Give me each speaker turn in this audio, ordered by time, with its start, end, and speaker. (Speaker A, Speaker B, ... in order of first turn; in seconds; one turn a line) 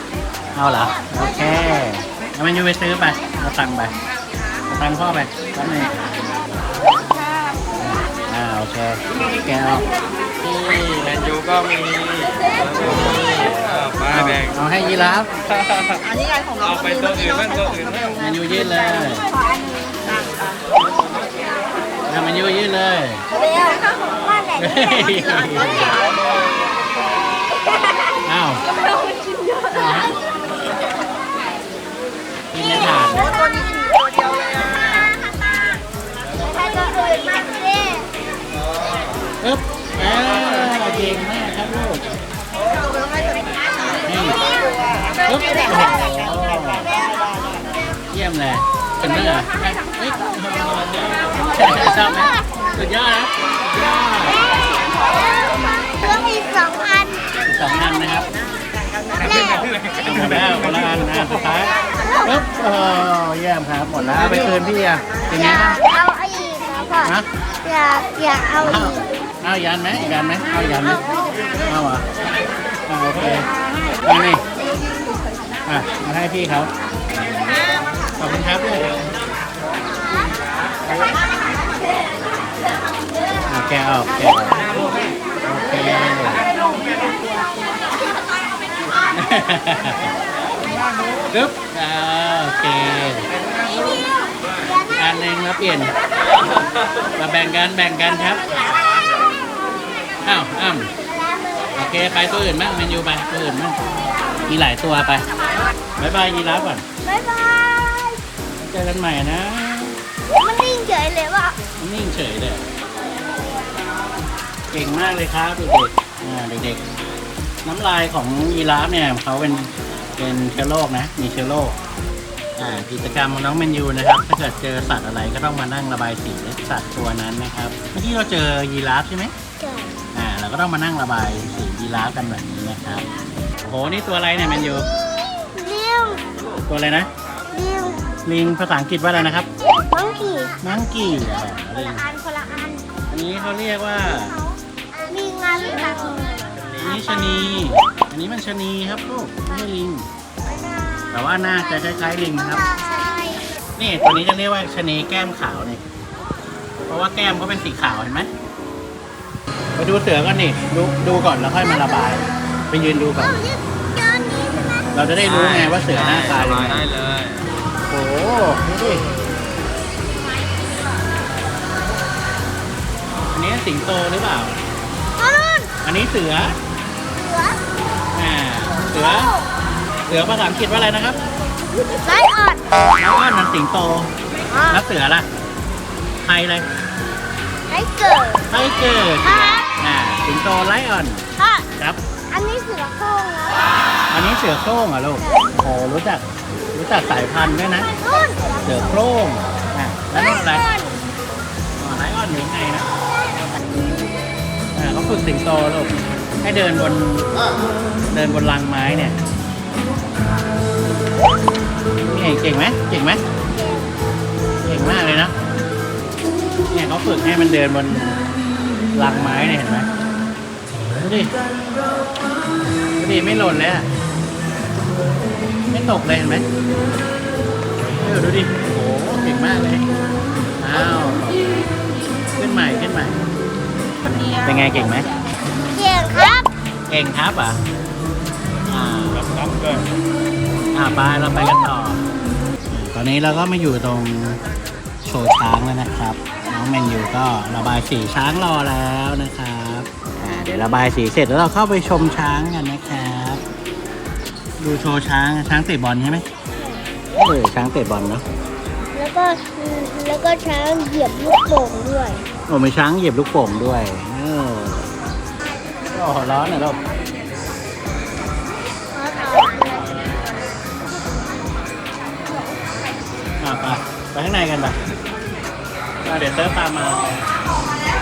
Speaker A: 0.5-4.0
Speaker B: 0.8-1.6
Speaker A: 4.7-6.0
Speaker A: 7.8-9.8
Speaker C: 10.4-14.5
Speaker A: 14.1-15.3
Speaker C: 15.6-18.2
Speaker A: 18.2-19.2
Speaker A: 22.1-23.2
Speaker B: 23.4-23.8
Speaker A: 24.5-26.0
Speaker A: 28.2-28.6
Speaker A: 29.7-30.1
Speaker A: 32.5-33.4
Speaker B: 32.6-35.7
Speaker B: 36.4-38.1
Speaker A: 39.4-42.1
Speaker A: 44.0-44.5
Speaker B: 44.4-44.7
Speaker A: 45.2-46.9
Speaker B: 45.2-46.2
Speaker B: 46.8-47.2
Speaker A: 48.1-54.4
Speaker B: 51.8-52.4
Speaker B: 54.3-58.0
Speaker A: 57.5-58.3
Speaker B: 59.2-59.9
Speaker A: 60.0-65.8
Speaker B: 61.6-62.4
Speaker B: 65.3-69.0
Speaker A: 68.6-71.0
Speaker A: 71.6-72.1
Speaker A: 72.9-73.5
Speaker A: 74.0-74.4
Speaker A: 75.6-76.7
Speaker A: 78.2-79.0
Speaker A: 83.5-84.7
Speaker A: 85.4-86.5
Speaker A: 89.1-90.1
Speaker A: 91.3-93.3
Speaker B: 93.6-95.2
Speaker A: 94.9-95.9
Speaker A: 97.2-98.6
Speaker B: 98.6-99.1
Speaker A: 100.2-100.9
Speaker B: 101.0-101.8
Speaker A: 101.7-103.8
Speaker A: 104.5-105.2
Speaker A: 106.0-106.8
Speaker B: 107.0-108.2
Speaker A: 108.6-110.0
Speaker B: 110.3-111.6
Speaker A: 111.8-112.7
Speaker A: 114.7-116.8
Speaker A: 117.7-121.8
Speaker A: 122.6-129.3
Speaker B: 129.6-130.0
Speaker A: 130.1-133.1
Speaker A: 133.6-134.9
Speaker B: 135.4-136.2
Speaker A: 136.7-137.1
Speaker B: 137.5-138.2
Speaker A: 138.2-139.5
Speaker B: 139.6-140.6
Speaker A: 140.6-142.0
Speaker B: 141.4-142.9
Speaker A: 143.1-144.4
Speaker B: 144.1-147.4
Speaker A: 146.7-150.1
Speaker B: 150.6-153.5
Speaker A: 151.1-152.7
Speaker A: 153.8-155.8
Speaker A: 156.9-158.3
Speaker A: 159.8-163.4
Speaker B: 163.2-165.0
Speaker A: 164.9-166.9
Speaker C: 165.2-167.4
Speaker A: 167.9-169.0
Speaker A: 173.3-174.5
Speaker B: 175.2-175.7
Speaker A: 175.8-176.6
Speaker B: 177.2-177.6
Speaker A: 178.1-179.3
Speaker B: 179.0-179.5
Speaker A: 180.1-181.2
Speaker B: 181.8-182.6
Speaker A: 183.0-184.1
Speaker B: 184.5-184.8
Speaker A: 184.7-185.3
Speaker A: 186.2-186.7
Speaker B: 187.7-188.4
Speaker A: 188.5-191.2
Speaker B: 189.2-189.7
Speaker B: 191.4-191.7
Speaker B: 192.3-193.7
Speaker A: 194.1-197.9
Speaker B: 195.2-195.5
Speaker B: 197.8-198.8
Speaker A: 198.6-200.7
Speaker B: 200.1-201.0
Speaker A: 201.8-202.9
Speaker A: 204.8-207.3
Speaker A: 208.1-209.2
Speaker A: 212.0-213.2
Speaker B: 213.5-213.9
Speaker A: 214.7-215.3
Speaker A: 216.7-218.2
Speaker A: 218.9-219.9
Speaker A: 220.9-221.3
Speaker A: 223.0-223.9
Speaker A: 225.7-226.5
Speaker A: 228.0-229.9
Speaker A: 230.6-231.5
Speaker A: 232.3-233.2
Speaker A: 234.0-235.1
Speaker B: 235.7-236.5
Speaker A: 236.9-237.6
Speaker A: 238.7-239.2
Speaker C: 239.2-239.8
Speaker A: 240.7-242.0
Speaker A: 242.7-244.4
Speaker A: 245.1-253.4
Speaker A: 254.6-256.2
Speaker B: 256.6-256.8
Speaker A: 257.1-258.2
Speaker B: 258.9-262.2
Speaker A: 262.5-264.9
Speaker A: 265.9-266.8
Speaker B: 268.9-269.9
Speaker A: 269.8-270.2
Speaker A: 273.4-274.8
Speaker A: 276.1-277.2